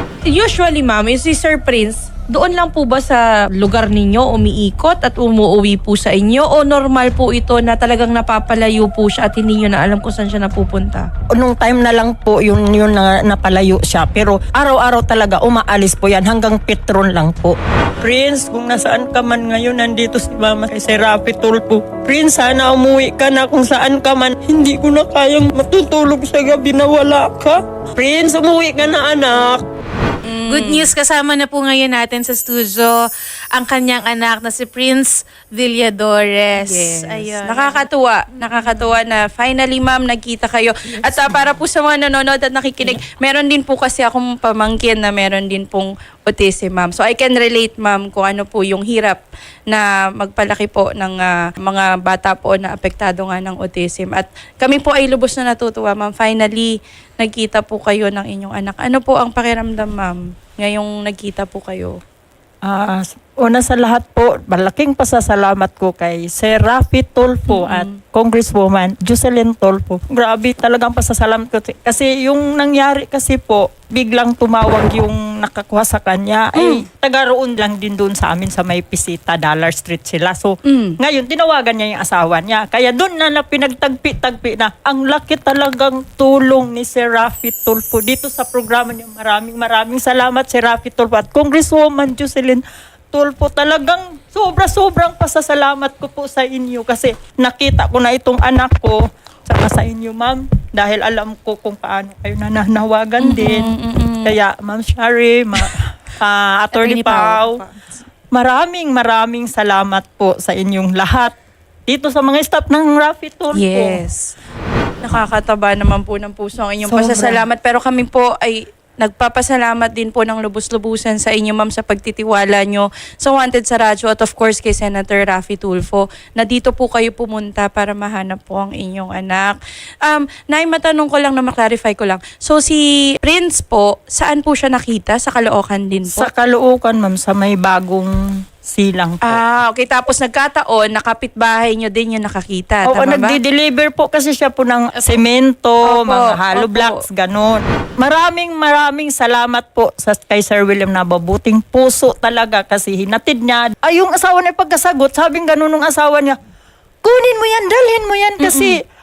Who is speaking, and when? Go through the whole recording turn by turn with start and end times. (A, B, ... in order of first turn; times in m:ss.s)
0:00.2-0:11.1 A
0:11.3-0:29.6 B
0:30.2-0:30.9 A
0:30.5-0:33.0 C
0:33.5-0:37.9 C
0:36.5-1:02.0 A
0:38.5-0:38.8 C
1:02.6-1:43.7 B
1:07.5-1:08.0 A
1:16.6-1:16.8 A
1:20.6-1:21.0 A
1:43.2-1:44.4 A
1:44.2-1:47.6 B
1:46.7-1:47.7 C
1:48.3-1:51.3 B
1:51.9-1:54.0 B
1:53.5-1:54.3 A
1:55.0-2:16.3 A
1:56.8-1:57.4 B
2:16.0-2:19.4 B
2:19.2-2:23.4 A
2:22.8-2:36.4 B
2:25.8-2:27.0 A
2:37.0-2:38.8 B
2:38.4-2:38.8 A